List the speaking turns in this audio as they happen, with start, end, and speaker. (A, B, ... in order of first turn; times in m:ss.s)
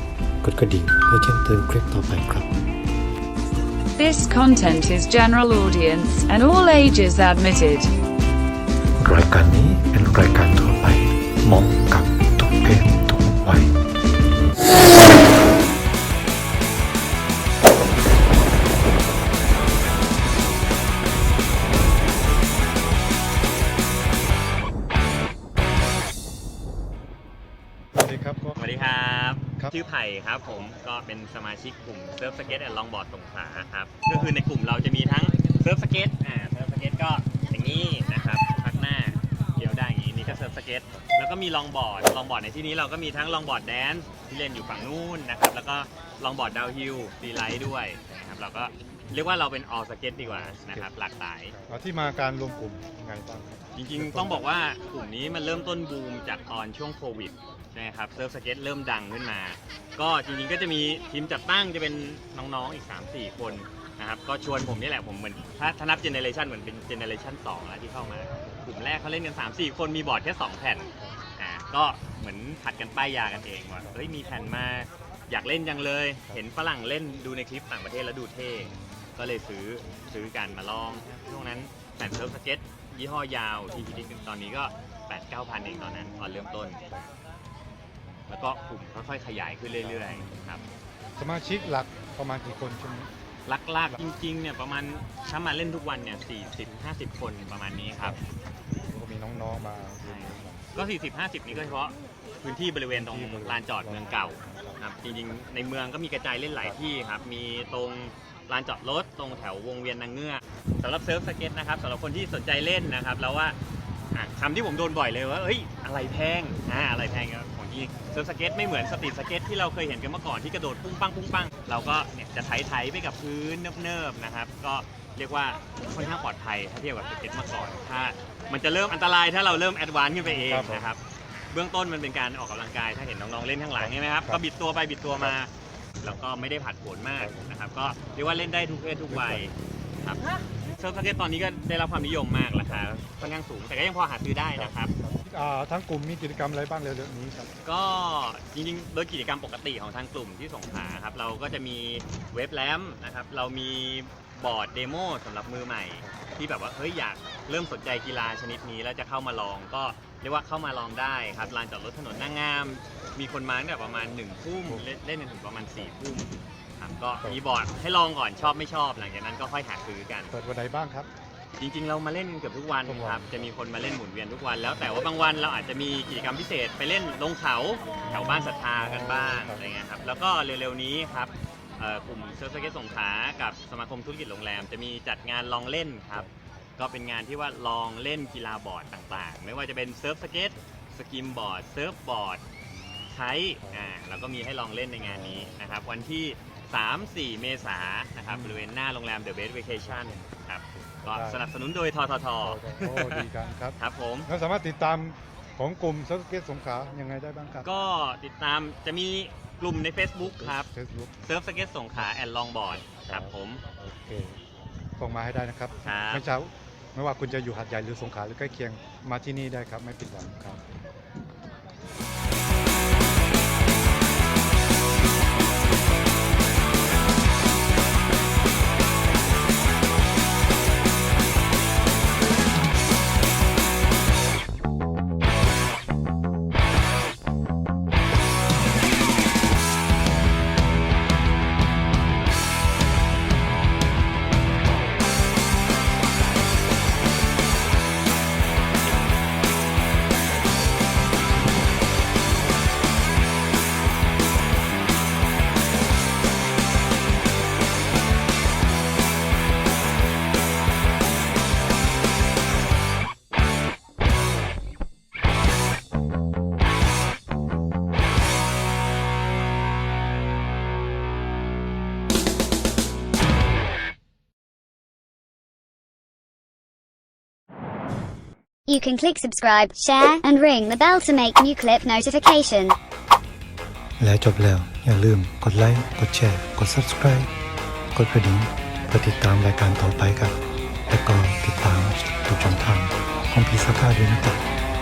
0:00.4-0:02.6 A
0:04.0-0:07.9 B
0:09.0-0:13.8 A
0:28.0-0:28.9 C
0:28.6-0:51.6 D
0:50.2-0:50.9 C
0:51.6-0:54.5 C
0:53.7-1:26.8 D
1:13.8-1:14.1 C
1:26.0-1:26.8 C
1:28.3-1:30.6 D
1:29.7-1:30.4 C
1:31.2-1:33.1 C
1:33.4-1:38.2 D
1:38.9-1:40.7 C
1:40.0-1:53.6 D
1:41.4-1:41.9 C
1:42.9-1:44.8 C
1:54.1-2:11.0 D
2:10.2-2:10.9 C
2:11.5-2:24.9 D
2:13.8-2:14.4 C
2:17.2-2:17.5 C
2:19.1-2:19.5 C
2:22.6-2:23.3 C
2:24.5-2:27.5 C
2:27.6-2:50.3 D
2:50.3-2:51.1 C
2:51.6-3:12.4 D
2:52.8-2:53.5 C
2:58.0-2:59.7 C
3:12.7-3:13.0 C
3:13.1-3:23.3 D
3:13.6-3:13.9 C
3:15.0-3:15.8 C
3:18.2-3:18.6 C
3:19.8-3:21.5 C
3:22.4-3:27.7 C
3:23.8-3:24.3 D
3:27.6-3:30.7 D
3:30.2-3:31.2 C
3:31.2-3:33.6 D
3:33.0-3:34.4 C
3:35.0-3:40.6 C
3:35.8-3:36.2 D
4:38.7-4:42.6 E
4:44.0-4:47.3 A
4:47.9-4:54.4 A